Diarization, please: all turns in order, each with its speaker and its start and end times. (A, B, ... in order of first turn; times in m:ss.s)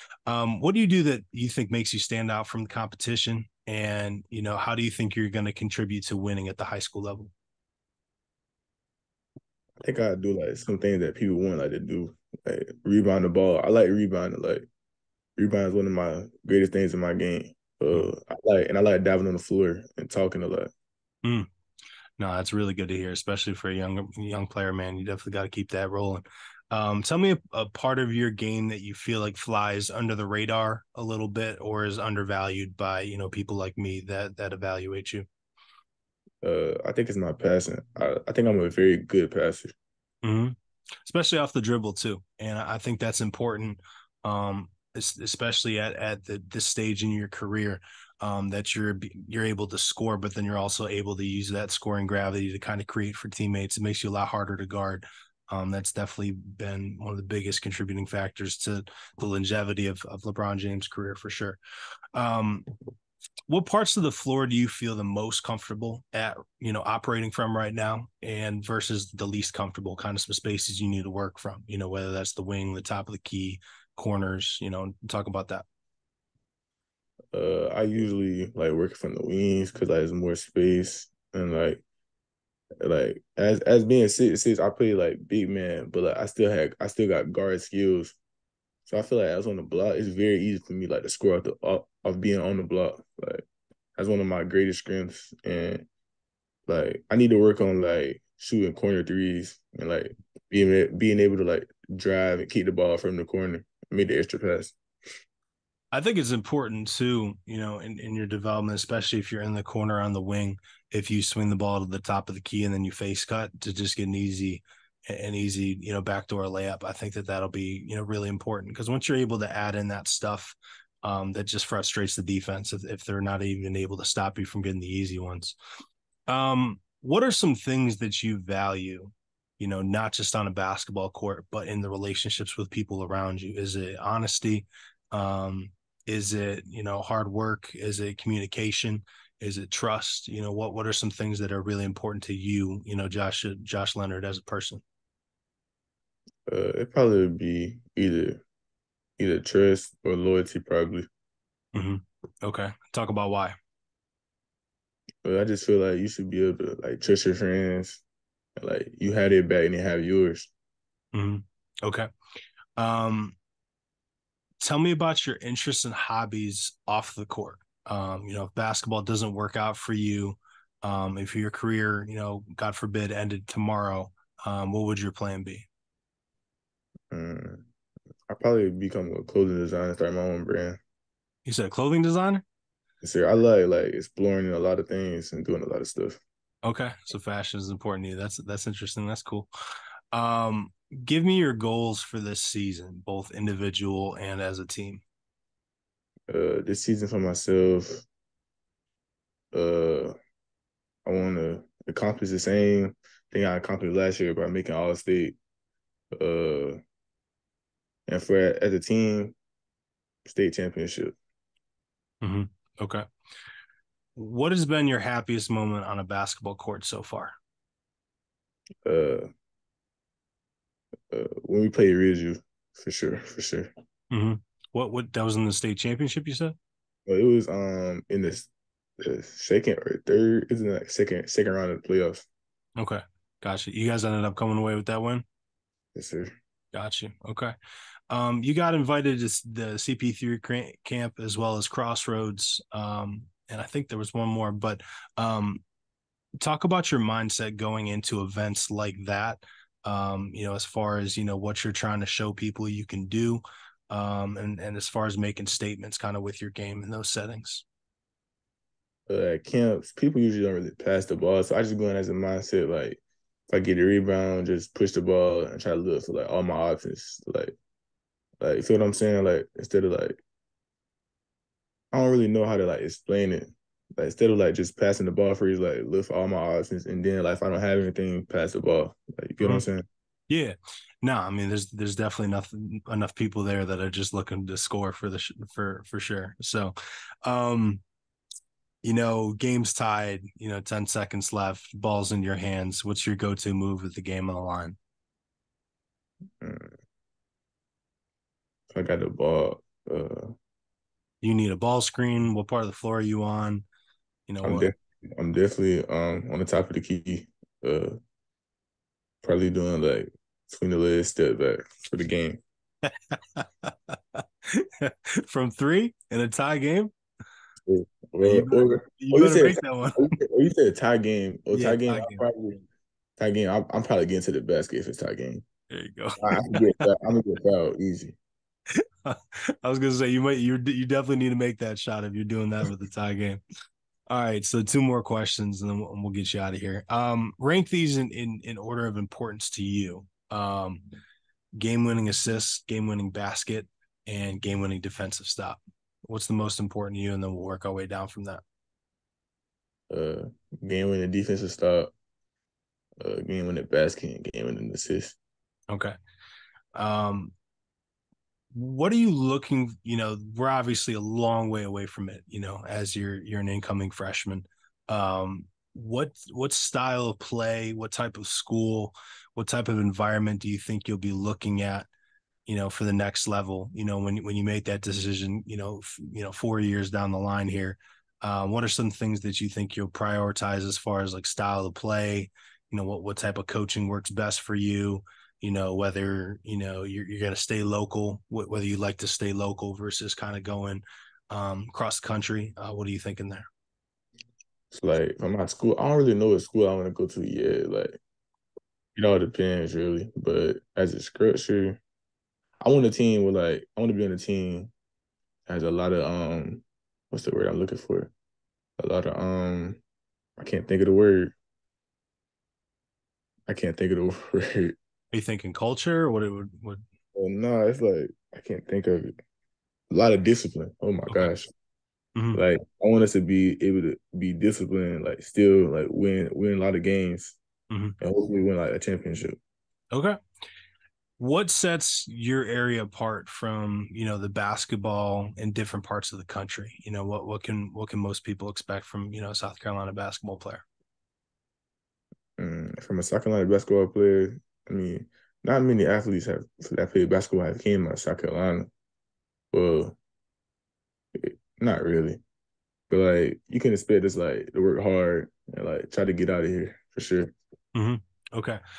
0:00.3-0:07.3 A
0:09.8-0:14.7 B
0:15.4-0:20.7 B
0:22.2-0:35.3 A
0:36.4-0:39.7 B
0:40.2-1:01.6 A
1:02.1-1:02.7 A
1:03.5-1:15.7 A
1:17.3-1:21.8 B
1:22.8-1:28.2 B
1:28.9-1:33.4 B
1:34.0-1:35.9 B
1:36.7-1:44.8 B
1:45.9-2:05.6 A
2:06.3-2:24.8 A
2:26.5-2:28.4 B
2:29.2-2:31.1 B
2:31.7-2:33.6 A
2:35.2-2:38.0 B
2:38.6-2:40.5 B
2:41.1-2:42.1 A
2:42.8-2:43.4 A
2:44.6-2:55.7 A
2:57.1-2:57.7 B
2:58.3-3:00.8 B
3:01.4-3:02.4 A
3:03.0-3:06.2 B
3:06.6-3:09.5 A
3:10.1-3:15.0 A
3:16.3-3:18.1 B
3:19.5-3:20.2 B
3:21.1-3:25.4 B
3:26.1-3:26.8 B
3:28.1-3:29.4 B
3:30.3-3:31.2 B
3:32.2-3:33.0 A
3:34.2-3:37.4 A
3:38.8-3:39.3 B
3:41.1-3:43.7 B
3:44.1-3:46.6 A
3:47.1-3:52.3 B
3:52.8-3:55.2 A
3:56.0-3:56.3 B
3:56.7-3:57.5 A
3:58.1-4:05.6 A
4:06.4-4:17.6 A
4:19.1-4:27.6 B
4:28.4-4:30.2 B
4:31.9-4:39.8 B
4:39.4-4:39.7 A
4:40.3-4:46.7 A
4:47.2-4:47.8 A
4:48.8-4:54.8 A
4:56.4-4:56.8 B
4:58.7-5:00.3 B
5:01.2-5:03.6 A
5:04.3-5:04.7 A
5:04.4-5:08.0 B
5:09.2-5:12.4 B
5:13.1-5:16.9 A
5:17.7-5:22.6 B
5:18.2-5:20.1 A
5:21.5-5:22.2 A
5:23.2-5:25.4 B
5:25.7-5:26.8 A
5:26.2-5:28.2 B
5:29.0-5:33.4 A
5:34.1-5:40.8 A
5:41.6-5:48.4 A
5:49.9-5:51.9 B
5:53.0-5:55.2 B
5:56.8-5:57.3 A
5:58.5-6:11.9 A
6:12.5-6:33.5 A
6:34.7-6:38.0 B
6:39.0-6:41.8 B
6:42.6-6:44.7 B
6:45.5-6:48.1 B
6:48.8-6:49.8 B
6:50.4-6:51.4 B
6:53.5-6:54.8 B
6:55.1-6:56.8 A
6:57.2-6:59.1 B
6:59.9-7:01.5 B
7:02.2-7:02.4 A
7:02.3-7:07.4 B
7:07.7-7:08.0 A
7:08.0-7:09.4 B
7:09.9-7:10.2 A
7:11.2-7:20.6 A
7:22.4-7:28.7 B
7:29.5-7:30.0 B
7:31.2-7:32.2 B
7:32.9-7:37.3 B
7:37.8-7:38.6 A